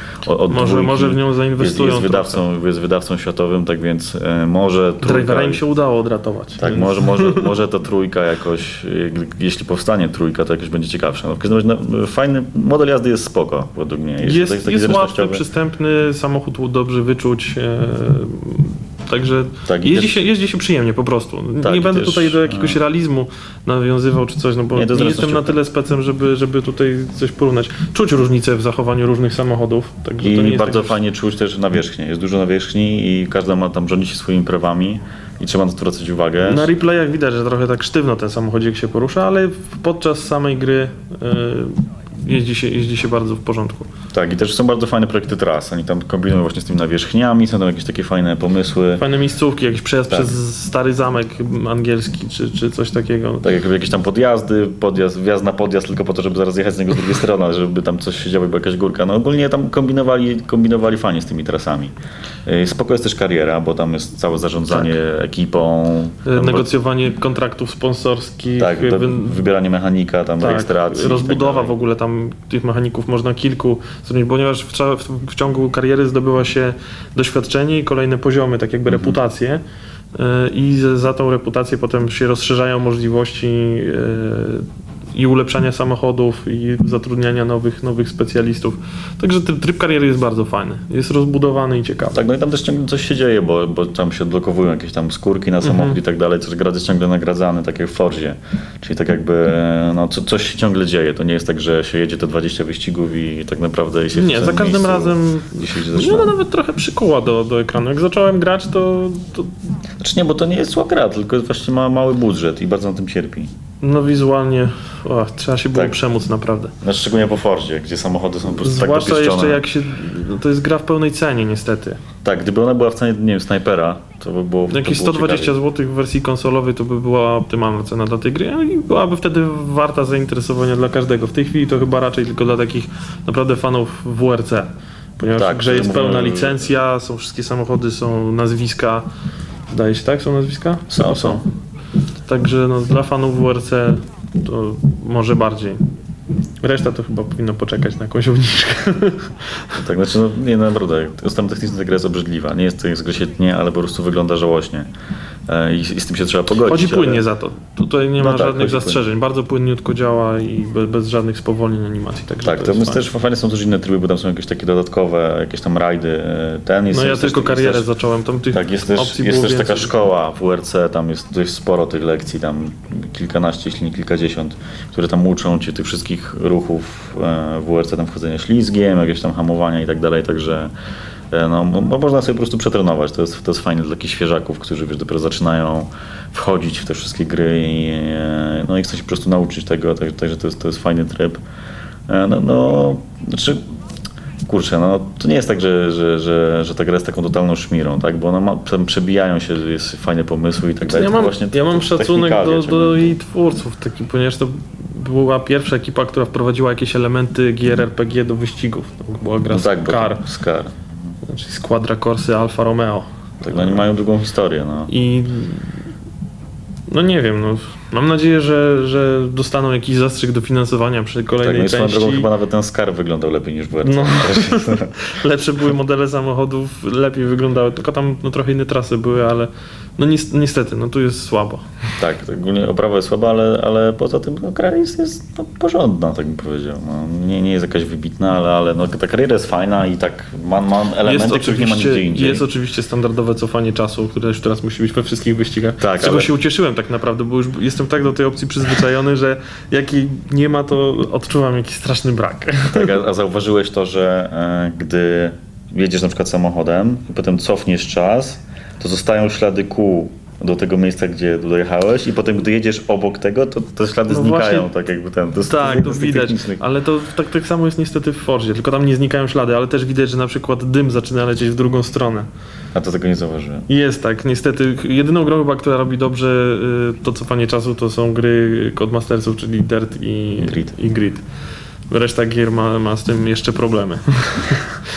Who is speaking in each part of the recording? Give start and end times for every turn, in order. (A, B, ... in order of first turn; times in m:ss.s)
0:00.2-0:05.6 A
0:00.5-0:02.4 B
0:05.0-0:07.5 B
0:06.6-0:15.4 A
0:14.2-0:31.0 B
0:19.7-0:20.2 A
0:21.6-0:22.8 A
0:24.8-0:25.6 A
0:30.2-0:36.7 A
0:36.5-0:43.9 B
0:44.1-0:49.0 A
0:49.0-0:53.5 B
0:50.1-0:50.4 A
0:53.4-1:01.9 A
1:02.5-1:06.7 A
1:06.3-1:09.4 B
1:08.6-1:11.8 A
1:10.4-1:19.6 B
1:18.9-1:19.2 A
1:20.2-1:32.2 B
1:32.1-1:46.3 A
1:35.6-1:36.0 B
1:44.1-1:49.7 B
1:50.0-1:53.5 A
1:53.8-1:56.7 B
1:56.8-1:59.6 A
1:58.6-2:02.0 B
2:02.2-2:05.6 A
2:04.7-2:19.0 B
2:15.3-2:16.7 A
2:19.7-2:21.4 B
2:20.9-2:21.4 A
2:22.3-2:25.9 B
2:26.6-2:29.8 B
2:29.8-2:34.9 A
2:35.5-2:37.2 A
2:36.6-2:43.0 B
2:38.2-2:39.0 A
2:42.4-2:47.9 A
2:46.9-2:50.0 B
2:48.5-3:00.7 A
3:01.3-3:11.4 A
3:12.1-3:13.6 A
3:14.5-3:23.2 A
3:20.9-3:30.2 B
3:29.5-3:31.0 A
3:31.3-3:33.8 B
3:33.4-3:34.9 A
3:34.9-3:35.8 B
3:36.9-3:42.3 B
3:41.4-3:44.9 A
3:43.8-3:51.8 B
3:52.0-4:02.4 A
4:01.0-4:13.0 B
4:05.8-4:06.3 A
4:12.7-4:26.6 A
4:24.1-4:24.7 B
4:25.4-4:32.3 B
4:32.7-4:33.7 A
4:33.7-4:41.2 B
4:40.4-4:40.7 A
4:41.9-4:44.8 B